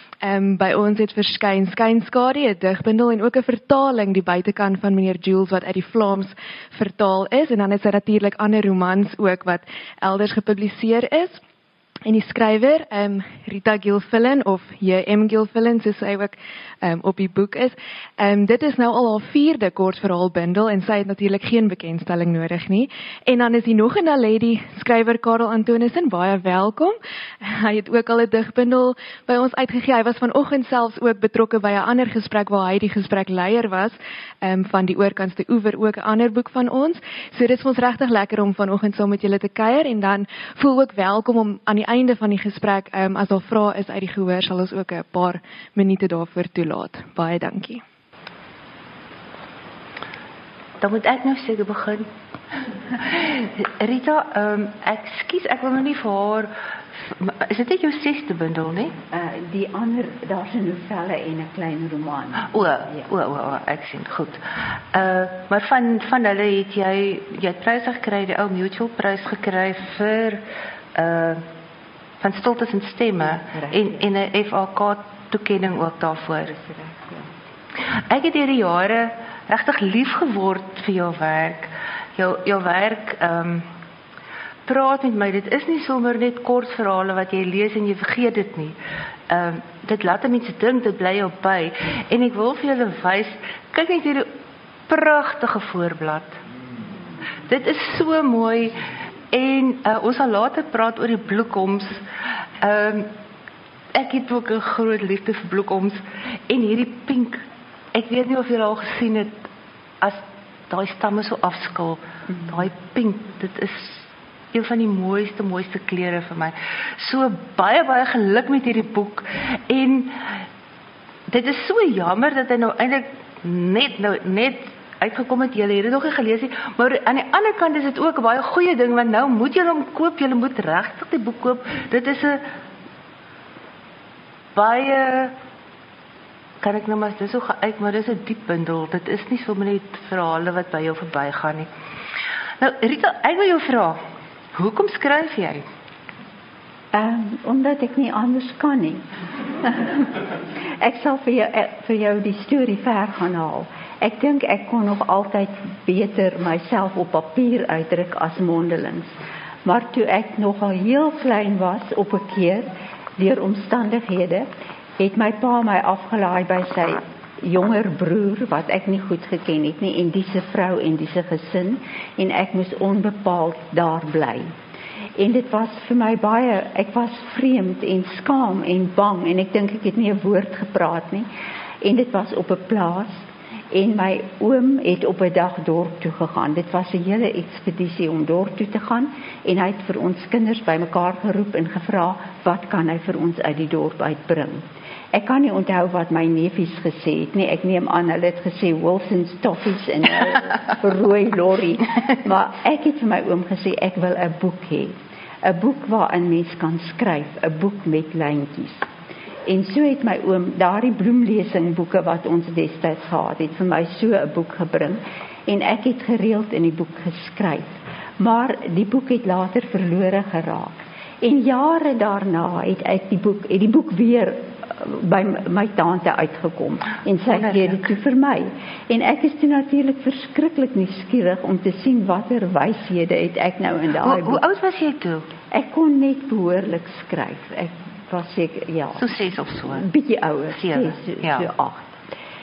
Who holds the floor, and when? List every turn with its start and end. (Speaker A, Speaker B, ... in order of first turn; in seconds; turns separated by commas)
Speaker A: 0.2-11.4, Speaker A: 12.1-47.8, Speaker B: 50.8-52.1, Speaker B: 53.0-59.0, Speaker C: 59.1-63.0, Speaker B: 62.4-70.4, Speaker B: 70.9-71.4, Speaker B: 72.2-76.5, Speaker C: 73.4-74.0, Speaker C: 76.5-77.4, Speaker B: 77.8-83.7, Speaker B: 84.7-88.8, Speaker B: 89.3-94.3, Speaker B: 94.9-96.4, Speaker B: 97.4-98.8, Speaker B: 99.3-102.0, Speaker B: 102.6-103.1, Speaker B: 103.9-109.4, Speaker B: 110.0-120.5, Speaker B: 121.3-132.4, Speaker B: 134.5-135.3, Speaker B: 136.6-141.7, Speaker B: 142.6-144.0, Speaker B: 144.5-145.6, Speaker C: 146.9-149.0, Speaker C: 149.6-174.5, Speaker C: 175.2-181.3, Speaker C: 181.8-208.9, Speaker C: 209.4-234.4, Speaker B: 234.0-235.3, Speaker C: 235.5-239.2, Speaker B: 239.0-239.8, Speaker C: 239.7-242.0, Speaker B: 240.5-241.5